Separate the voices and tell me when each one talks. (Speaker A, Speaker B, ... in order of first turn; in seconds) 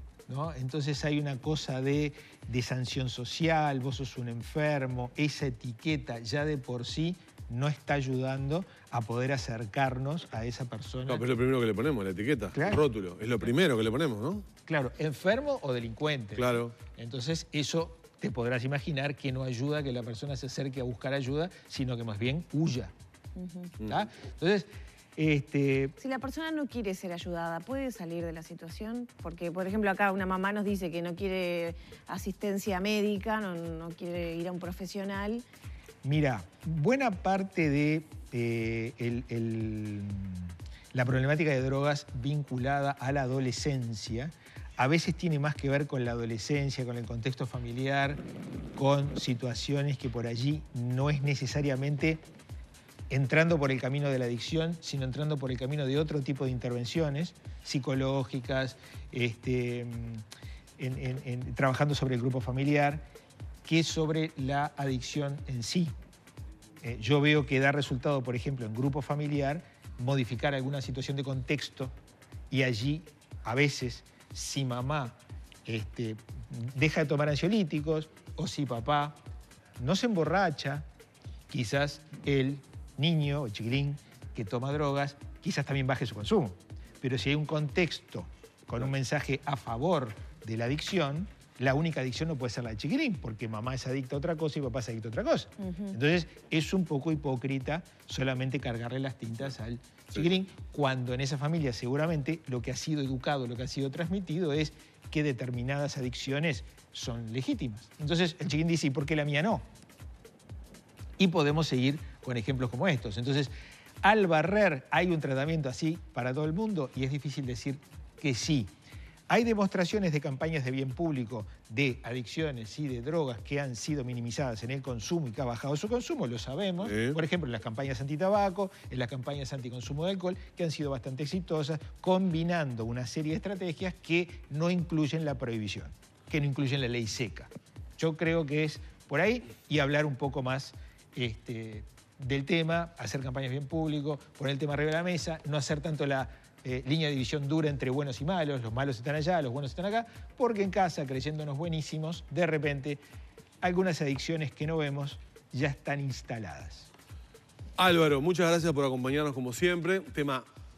Speaker A: 0.3-11.2, 12.5-12.8, 14.7-22.9, 23.8-25.9, 36.0-48.2, 48.8-52.2, 53.1-60.2, 60.8-63.0, 63.6-65.9, 66.8-71.9, 72.5-79.2, 79.8-80.8, 81.5-109.6, 111.2-113.5, 114.0-118.7, 119.3-153.0, 153.6-156.9
Speaker B: 11.1-14.5, 16.4-16.8, 126.8-127.2, 157.8-160.5
Speaker C: 23.4-23.7, 26.0-35.5, 95.6-95.9